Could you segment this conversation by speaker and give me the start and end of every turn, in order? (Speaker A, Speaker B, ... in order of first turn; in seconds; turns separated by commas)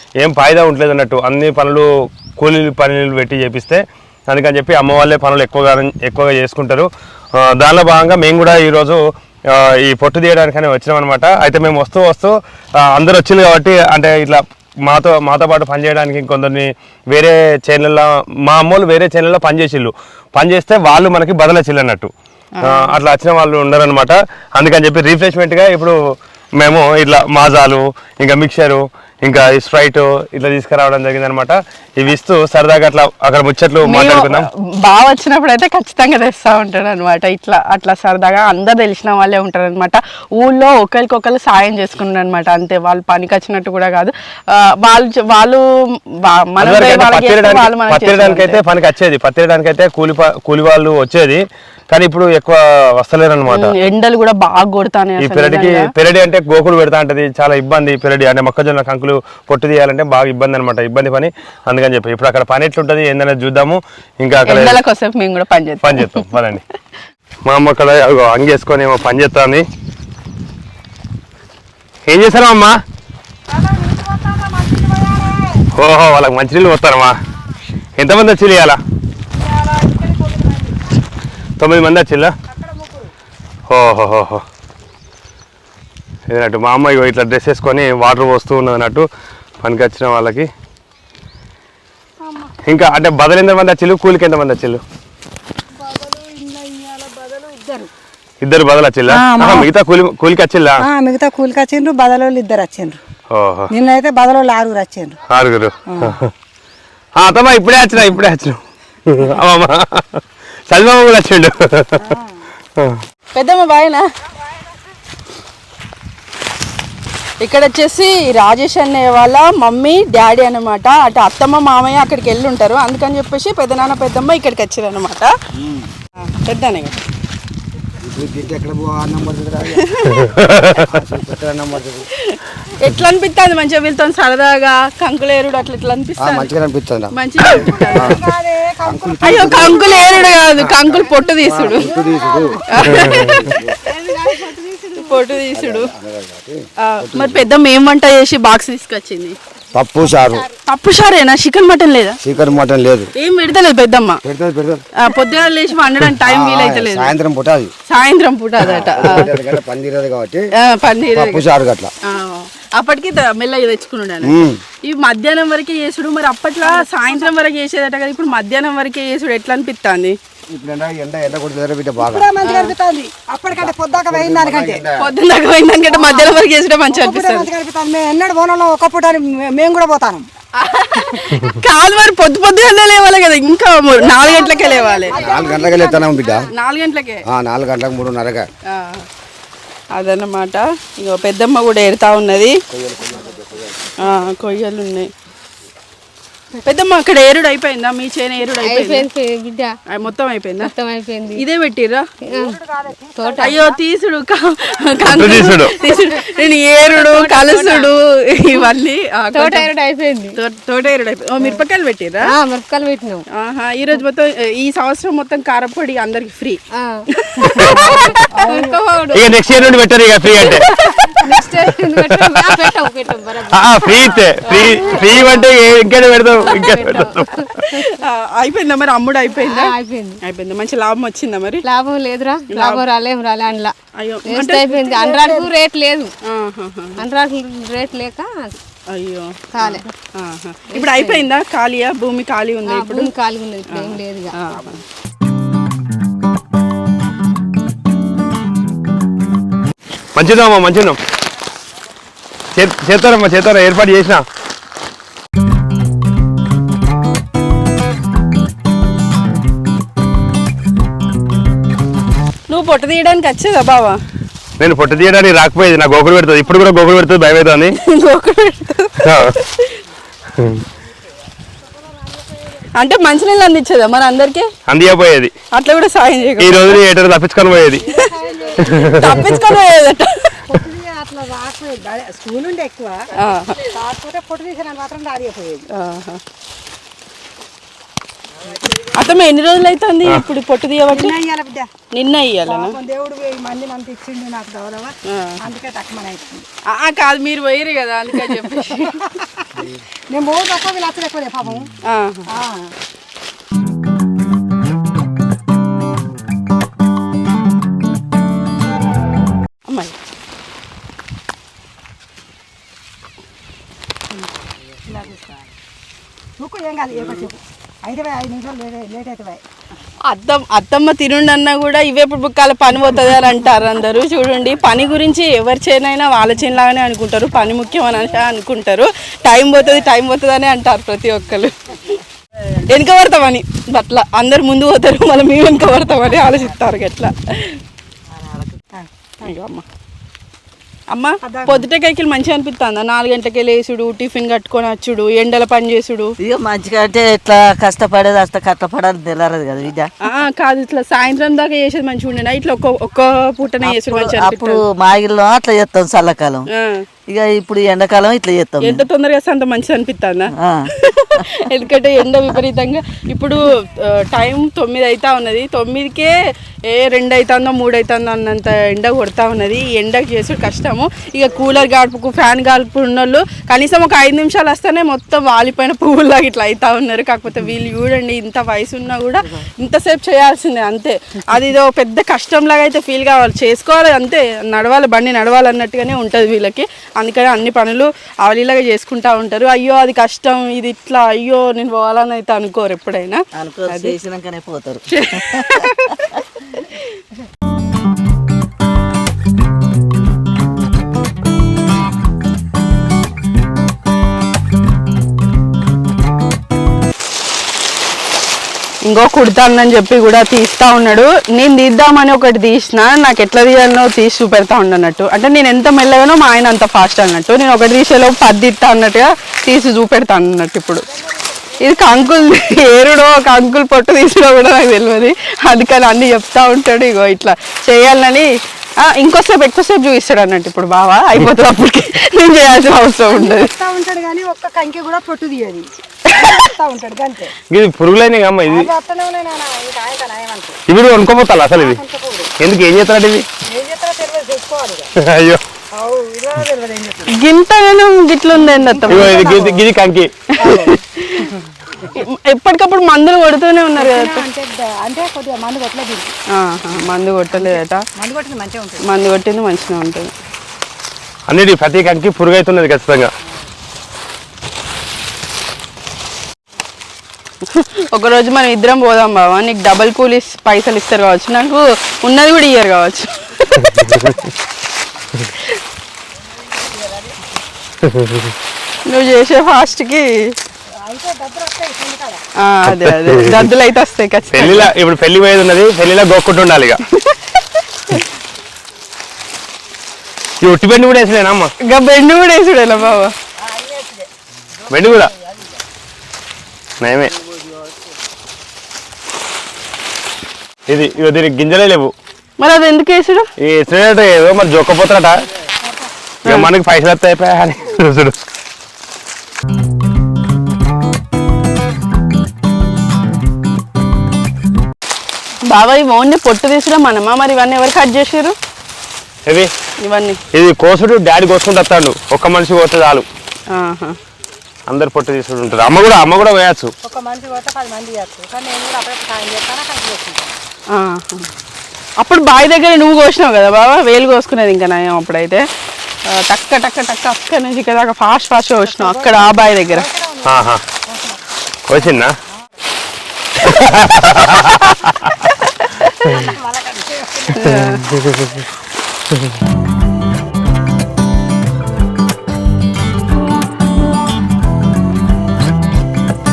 Speaker A: 0.2-1.9, Speaker A: 2.4-6.9, Speaker A: 7.5-9.0, Speaker A: 9.5-12.3, Speaker A: 12.9-22.1, Speaker B: 22.6-22.9, Speaker A: 22.6-25.9, Speaker A: 26.6-34.5, Speaker B: 33.9-45.6, Speaker B: 46.2-48.6, Speaker A: 46.6-53.7, Speaker B: 53.5-55.8, Speaker A: 55.2-64.8, Speaker B: 64.5-66.2, Speaker A: 65.8-66.6, Speaker A: 67.5-69.6, Speaker A: 72.1-72.7, Speaker C: 73.5-75.6, Speaker A: 75.8-77.1, Speaker A: 78.0-78.8, Speaker C: 79.3-80.8, Speaker A: 81.6-82.3, Speaker C: 82.5-83.1, Speaker A: 83.7-84.4, Speaker A: 86.3-89.0, Speaker A: 89.6-90.5, Speaker C: 92.2-92.6, Speaker A: 92.6-94.8, Speaker C: 95.8-97.9, Speaker A: 98.4-100.8, Speaker C: 99.1-99.7, Speaker C: 100.8-103.0, Speaker A: 103.3-103.7, Speaker C: 103.7-105.1, Speaker A: 105.3-106.3, Speaker C: 105.9-106.2, Speaker A: 107.2-112.0, Speaker C: 112.0-112.3, Speaker B: 113.3-114.0, Speaker B: 117.4-125.3, Speaker D: 125.6-125.9, Speaker B: 126.2-126.9, Speaker D: 128.0-132.0, Speaker B: 129.8-130.3, Speaker A: 130.1-131.0, Speaker B: 132.3-136.5, Speaker D: 136.2-137.1, Speaker B: 137.1-138.2, Speaker C: 137.6-140.4, Speaker D: 137.9-138.2, Speaker D: 138.8-139.9, Speaker B: 139.2-141.9, Speaker D: 140.5-143.8, Speaker C: 141.8-143.0, Speaker B: 142.7-145.9, Speaker C: 144.5-145.2, Speaker D: 145.5-147.5, Speaker B: 146.8-149.3, Speaker D: 149.7-150.4, Speaker B: 150.6-152.2, Speaker D: 152.2-153.1, Speaker B: 153.2-154.2, Speaker D: 154.2-154.8, Speaker B: 155.0-157.1, Speaker D: 156.2-157.7, Speaker B: 157.9-159.3, Speaker D: 158.6-160.4, Speaker B: 160.6-161.4, Speaker D: 161.1-161.9, Speaker B: 162.0-170.2, Speaker D: 164.2-164.6, Speaker D: 170.5-172.3, Speaker C: 172.0-174.8, Speaker B: 172.4-172.7, Speaker D: 173.5-175.0, Speaker B: 175.0-177.5, Speaker C: 175.9-176.4, Speaker C: 176.9-180.3, Speaker B: 180.6-185.2, Speaker C: 184.0-186.3, Speaker D: 185.1-186.5, Speaker B: 186.5-187.2, Speaker D: 187.3-188.4, Speaker B: 188.7-189.0, Speaker B: 189.9-192.6, Speaker D: 192.7-193.9, Speaker B: 194.0-195.1, Speaker B: 196.6-199.1, Speaker E: 198.5-199.7, Speaker B: 199.9-200.7, Speaker E: 200.6-201.4, Speaker B: 201.3-202.1, Speaker E: 202.2-202.6, Speaker C: 202.3-203.8, Speaker E: 203.2-203.7, Speaker B: 203.4-209.7, Speaker A: 205.1-205.8, Speaker E: 205.9-206.3, Speaker E: 206.9-207.9, Speaker E: 209.3-210.4, Speaker B: 210.3-212.3, Speaker E: 212.2-213.2, Speaker B: 213.3-216.6, Speaker E: 216.7-219.5, Speaker B: 217.2-218.8, Speaker A: 217.6-217.9, Speaker A: 219.1-220.7, Speaker E: 220.4-225.5, Speaker B: 220.5-221.2, Speaker A: 221.9-222.6, Speaker A: 223.5-227.4, Speaker B: 224.5-225.3, Speaker E: 226.4-228.0, Speaker B: 227.6-231.6, Speaker E: 229.3-230.2, Speaker E: 231.6-233.7, Speaker B: 232.5-232.8, Speaker B: 234.0-235.5, Speaker E: 234.2-236.1, Speaker B: 236.3-237.0, Speaker E: 237.0-238.5, Speaker B: 238.9-243.1, Speaker E: 239.5-239.9, Speaker E: 240.7-241.3, Speaker E: 242.7-244.4, Speaker B: 243.7-244.8, Speaker A: 250.1-251.0, Speaker A: 252.5-254.2, Speaker B: 262.5-264.0, Speaker A: 264.6-267.7, Speaker B: 267.8-269.8, Speaker A: 269.0-269.3, Speaker B: 272.7-274.5, Speaker A: 274.7-275.3, Speaker B: 275.5-276.8, Speaker A: 276.4-277.9, Speaker C: 277.8-279.4, Speaker A: 278.6-279.3, Speaker B: 278.9-280.4, Speaker C: 280.5-283.1, Speaker B: 283.1-283.7, Speaker C: 283.6-285.6, Speaker B: 285.7-286.2, Speaker B: 288.9-291.1, Speaker C: 290.9-291.7, Speaker B: 291.9-292.8, Speaker C: 292.4-296.4, Speaker B: 295.1-295.4, Speaker B: 296.7-299.0, Speaker C: 298.4-301.7, Speaker B: 301.9-302.3, Speaker C: 302.3-302.7, Speaker B: 309.7-309.9, Speaker C: 314.9-315.4, Speaker C: 316.4-319.4, Speaker B: 320.1-332.0, Speaker B: 332.6-337.6, Speaker C: 338.7-339.3, Speaker B: 339.2-339.6, Speaker B: 340.9-346.1, Speaker C: 341.2-341.6, Speaker F: 346.2-349.9, Speaker B: 350.0-354.6, Speaker F: 353.6-356.5, Speaker B: 356.5-356.8, Speaker F: 357.1-358.8, Speaker B: 358.6-366.1, Speaker B: 366.7-393.9, Speaker F: 393.3-395.4, Speaker B: 395.1-395.8, Speaker B: 396.5-396.8, Speaker B: 408.9-420.8, Speaker C: 421.0-422.3, Speaker B: 421.6-428.3, Speaker B: 428.8-433.5, Speaker C: 433.1-437.3, Speaker A: 437.5-438.7, Speaker C: 438.4-440.6, Speaker A: 440.7-441.8, Speaker C: 441.5-442.3, Speaker A: 442.4-443.2, Speaker C: 443.5-444.9, Speaker A: 445.0-445.4, Speaker C: 445.7-447.1, Speaker B: 447.1-449.3, Speaker C: 448.4-449.6, Speaker A: 448.9-450.2, Speaker C: 450.4-451.3, Speaker B: 450.5-451.3, Speaker B: 451.9-454.2, Speaker C: 453.7-456.1, Speaker B: 456.4-457.8, Speaker C: 457.3-458.8, Speaker B: 458.8-460.1, Speaker A: 461.3-463.1, Speaker B: 467.5-473.8, Speaker A: 473.6-474.1, Speaker A: 477.8-478.3, Speaker B: 478.9-480.1, Speaker C: 480.8-482.2, Speaker B: 482.4-484.7, Speaker A: 482.6-483.5, Speaker A: 484.3-486.8, Speaker B: 487.0-488.0, Speaker A: 490.4-491.5, Speaker B: 491.6-493.1, Speaker C: 493.6-493.9, Speaker A: 494.7-495.1, Speaker A: 496.8-497.1, Speaker A: 500.7-501.9, Speaker B: 502.4-503.3, Speaker A: 503.4-505.1, Speaker A: 506.3-508.1, Speaker B: 515.5-518.3, Speaker B: 519.8-520.2, Speaker A: 520.3-523.0, Speaker B: 523.5-524.0, Speaker A: 524.7-526.7, Speaker C: 526.8-530.4, Speaker B: 530.7-531.3, Speaker B: 532.0-535.4, Speaker B: 536.1-539.9, Speaker C: 538.6-541.2, Speaker A: 540.2-540.6, Speaker A: 541.7-542.1, Speaker C: 541.8-542.0, Speaker A: 543.4-545.3, Speaker B: 545.4-545.9, Speaker C: 546.0-547.7, Speaker B: 547.3-547.8, Speaker A: 547.5-548.4